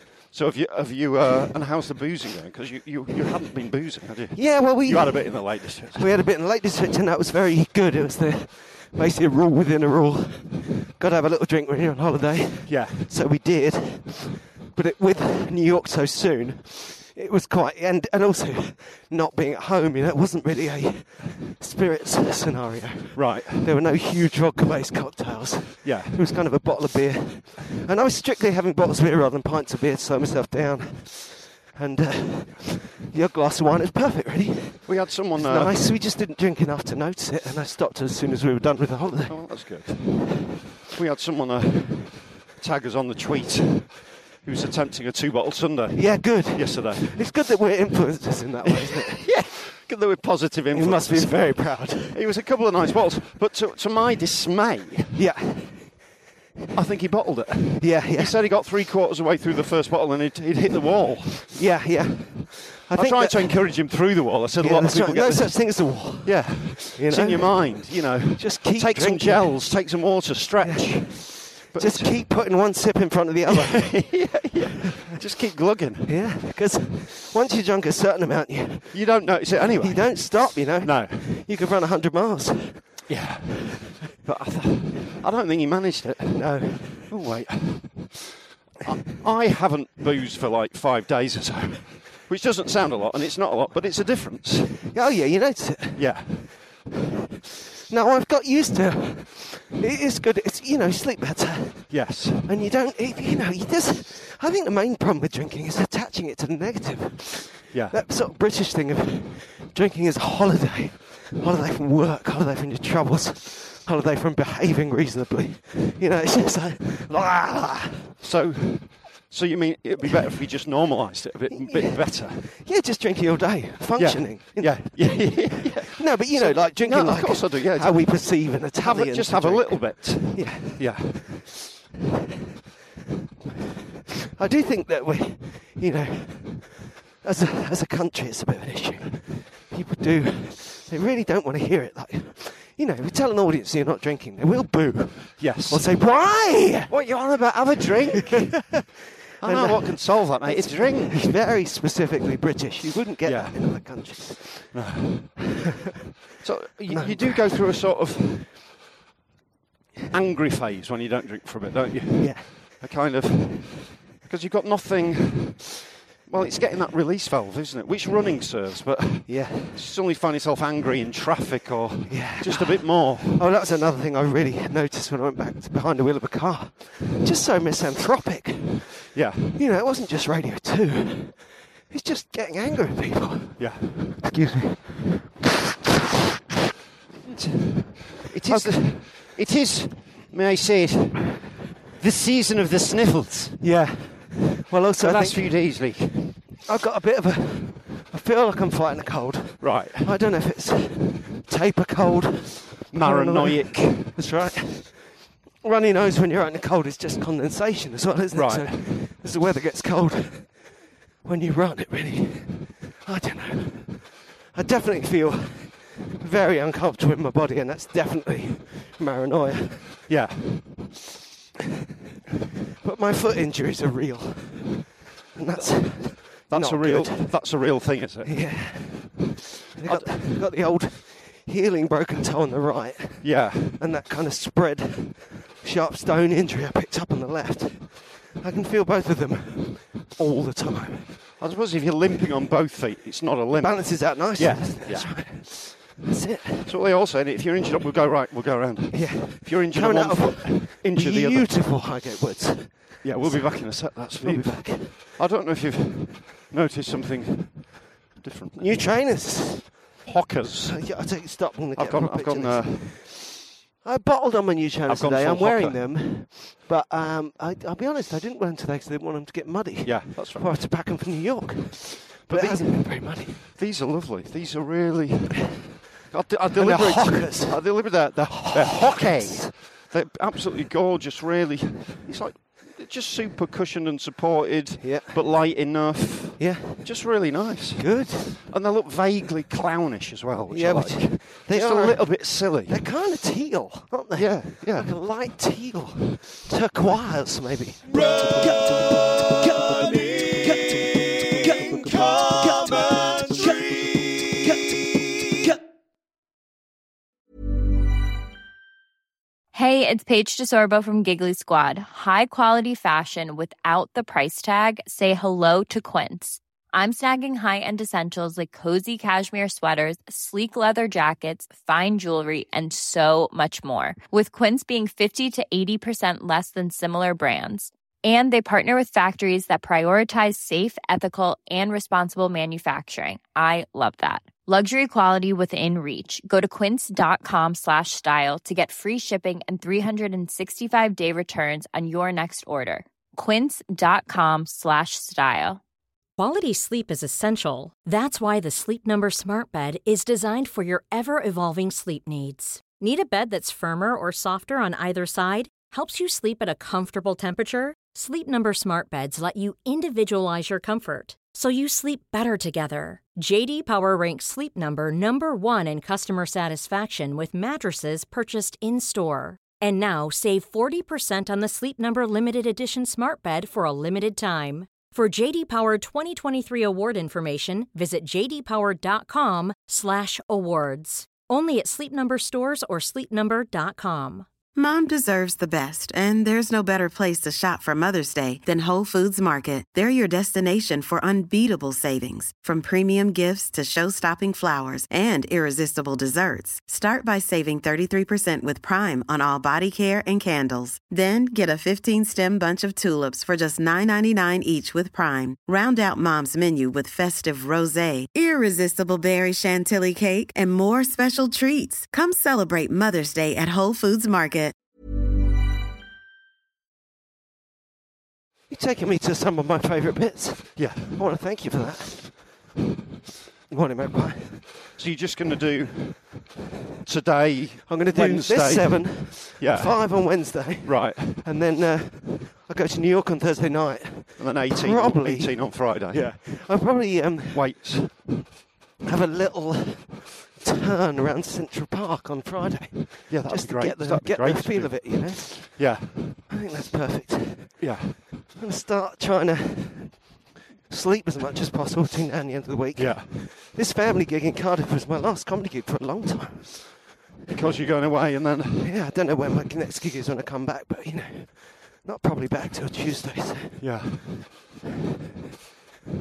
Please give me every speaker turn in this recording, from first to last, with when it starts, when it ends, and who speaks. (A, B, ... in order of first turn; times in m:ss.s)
0:00.3-0:06.1 A
0:04.3-0:39.8 B
0:12.7-0:13.1 A
0:23.1-0:23.7 A
0:25.8-0:26.2 A
0:34.9-0:35.9 A
0:39.3-0:47.3 A
0:45.9-0:49.2 B
0:48.7-0:55.2 A
0:50.7-0:52.2 B
0:55.1-0:56.1 B
0:56.7-1:01.6 A
0:57.8-0:58.4 B
1:01.5-1:09.7 B
1:02.9-1:12.2 A
1:10.6-1:14.4 B
1:13.5-1:16.4 A
1:16.0-1:23.1 B
1:18.9-1:21.4 A
1:23.1-1:28.3 A
1:24.2-1:25.1 B
1:26.3-1:27.1 B
1:28.8-1:34.9 A
1:34.9-1:36.6 B
1:36.0-1:36.8 A
1:37.9-1:58.1 B
1:41.9-1:42.5 A
1:47.7-1:48.0 A
1:58.2-2:02.5 A
2:01.5-2:11.1 B
2:04.0-2:11.5 A
2:14.4-2:27.0 B
2:25.4-2:26.1 A
2:26.9-2:31.3 A
2:29.4-2:34.9 B
2:33.2-2:35.5 A
2:36.4-2:38.5 A
2:36.9-2:37.6 B
2:40.1-2:53.4 A
2:42.2-2:42.8 B
2:49.3-2:49.8 B
2:52.1-3:05.4 B
2:59.1-2:59.6 A
3:03.6-3:04.2 A
3:07.4-3:08.8 B
3:08.2-3:13.6 A
3:13.6-3:16.0 B
3:15.0-3:16.4 A
3:16.6-3:40.0 B
3:19.6-3:20.1 A
3:22.9-3:24.2 A
3:28.3-3:28.8 A
3:40.1-3:40.9 A
3:42.8-3:44.8 B
3:45.3-4:01.2 B
3:46.5-3:48.8 A
3:49.9-3:50.2 A
3:53.2-3:53.8 A
4:01.4-4:05.6 A
4:03.6-4:06.7 B
4:06.6-4:11.5 A
4:08.9-4:15.1 B
4:13.0-4:18.9 A
4:18.6-4:20.0 B
4:20.0-4:21.1 A
4:20.7-4:23.3 B
4:21.8-4:23.0 A
4:23.8-4:33.4 B
4:24.9-4:26.0 A
4:29.8-4:30.5 A
4:32.3-4:52.9 A
4:36.5-4:39.5 B
4:44.8-4:45.3 B
4:46.4-4:48.4 B
4:50.5-5:03.6 B
4:54.2-4:54.9 A
4:59.9-5:00.4 A
5:01.6-5:04.0 A
5:09.5-5:45.6 C
5:46.2-6:24.3 D
6:24.6-6:54.6 E
6:58.5-7:02.5 B
7:00.6-7:01.0 A
7:03.5-7:04.5 B
7:04.7-7:06.3 A
7:06.8-7:11.2 A
7:07.7-7:17.9 B
7:14.2-7:18.2 A
7:18.8-7:30.1 B
7:23.1-7:26.3 A
7:27.6-7:28.0 A
7:30.7-7:37.4 B
7:32.8-7:33.1 A
7:37.3-7:38.7 A
7:38.6-7:43.8 B
7:43.6-7:44.2 A